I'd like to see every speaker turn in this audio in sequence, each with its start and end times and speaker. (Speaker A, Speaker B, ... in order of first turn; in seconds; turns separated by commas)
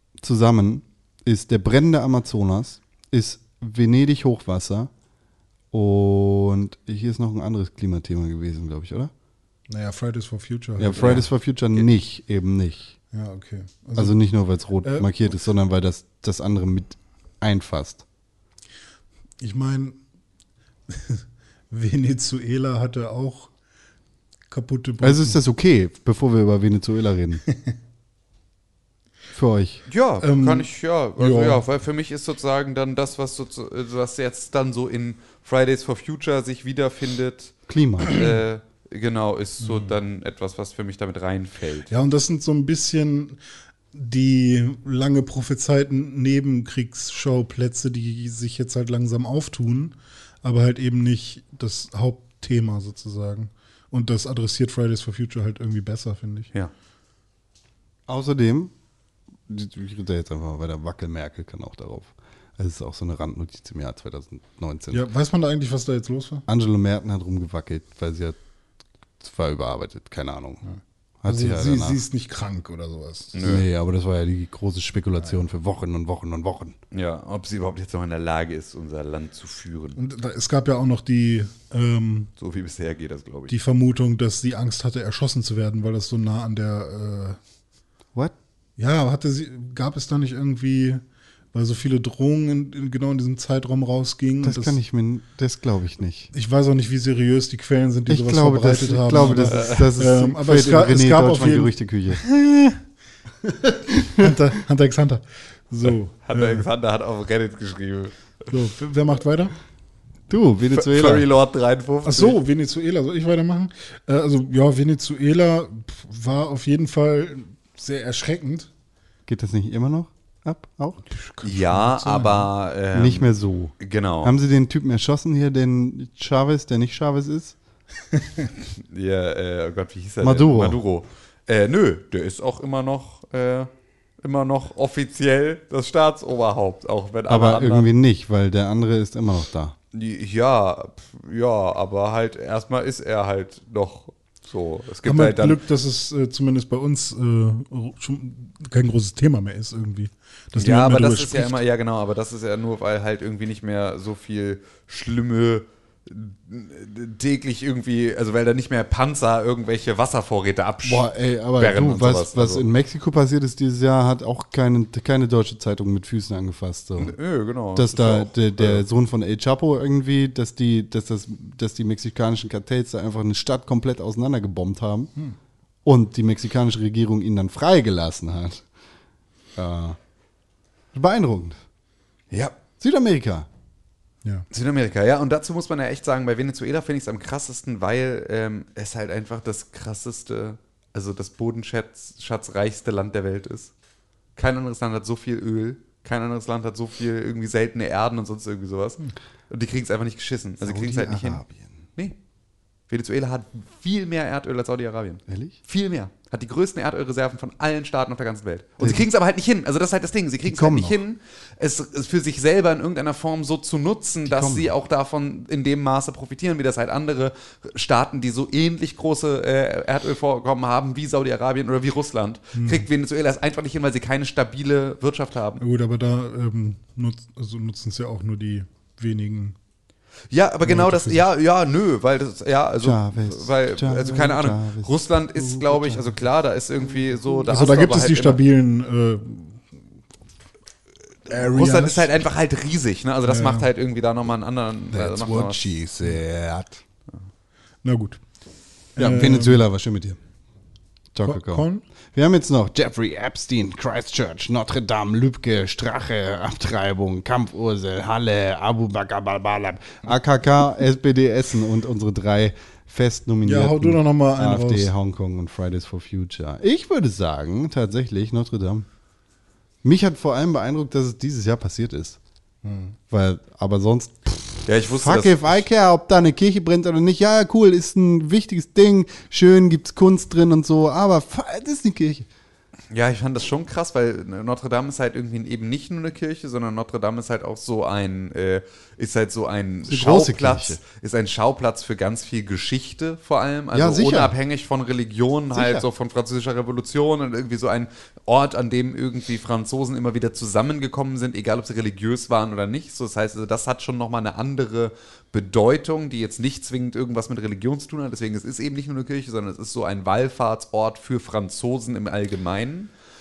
Speaker A: 0.2-4.9, Speaker A: 5.7-9.1, Speaker B: 9.7-11.2, Speaker A: 10.8-12.9, Speaker C: 11.0-11.2, Speaker B: 13.1-14.2, Speaker A: 13.9-18.0, Speaker B: 14.8-15.1, Speaker B: 19.4-20.0, Speaker B: 20.9-23.5, Speaker B: 24.5-25.4, Speaker A: 25.0-27.4, Speaker B: 27.5-27.7, Speaker A: 29.3-29.8, Speaker C: 29.9-37.5, Speaker B: 30.2-31.6, Speaker A: 37.7-38.3, Speaker C: 38.0-41.9, Speaker B: 39.6-39.9, Speaker B: 41.9-43.4, Speaker B: 43.9-56.5, Speaker A: 58.1-58.7, Speaker A: 59.5-65.1, Speaker B: 64.9-66.4, Speaker A: 66.5-68.4, Speaker A: 69.2-70.6, Speaker B: 70.7-73.4, Speaker A: 71.2-72.0, Speaker C: 73.3-73.7, Speaker A: 73.4-76.8, Speaker C: 76.9-80.0, Speaker B: 80.0-82.3, Speaker C: 82.4-83.5, Speaker B: 83.5-87.4, Speaker B: 88.8-91.0, Speaker B: 91.5-94.8, Speaker A: 94.4-96.3, Speaker B: 96.3-102.8, Speaker A: 98.1-102.2, Speaker C: 99.5-99.8, Speaker B: 103.4-106.7, Speaker A: 104.0-104.3, Speaker C: 106.2-108.1, Speaker B: 108.5-109.5, Speaker A: 110.3-111.3, Speaker C: 110.7-112.4, Speaker B: 112.0-118.7, Speaker A: 119.3-121.0, Speaker B: 121.1-122.5, Speaker C: 121.4-124.3, Speaker A: 122.9-127.5, Speaker C: 128.9-133.7, Speaker A: 130.2-130.8, Speaker C: 134.2-137.9, Speaker A: 137.3-139.8, Speaker C: 139.9-145.6, Speaker B: 145.0-151.6, Speaker C: 150.6-162.6, Speaker A: 160.8-167.2, Speaker C: 167.0-168.8, Speaker A: 167.7-175.1, Speaker A: 175.8-178.6, Speaker A: 179.6-180.0, Speaker A: 180.9-181.6, Speaker A: 182.8-183.5, Speaker C: 184.5-193.7, Speaker C: 194.3-201.4, Speaker A: 200.6-201.8, Speaker C: 202.9-225.6, Speaker A: 205.3-205.6, Speaker A: 208.8-209.1, Speaker A: 210.4-211.0, Speaker A: 214.2-214.7, Speaker B: 222.5-222.8, Speaker B: 225.6-229.5, Speaker C: 230.3-238.4, Speaker B: 230.6-231.3, Speaker A: 232.8-236.1, Speaker B: 237.5-239.6, Speaker B: 241.3-242.1, Speaker C: 241.3-245.7, Speaker B: 243.3-243.7, Speaker A: 244.9-246.8, Speaker B: 247.8-248.2, Speaker B: 248.9-249.6, Speaker A: 249.0-250.2, Speaker A: 251.1-268.9, Speaker B: 251.2-251.8, Speaker B: 263.4-264.9, Speaker A: 269.8-272.2, Speaker B: 272.6-272.9, Speaker A: 273.1-282.3, Speaker C: 274.6-275.6, Speaker C: 282.9-312.9, Speaker A: 289.9-290.8, Speaker A: 293.7-294.3, Speaker A: 295.5-295.9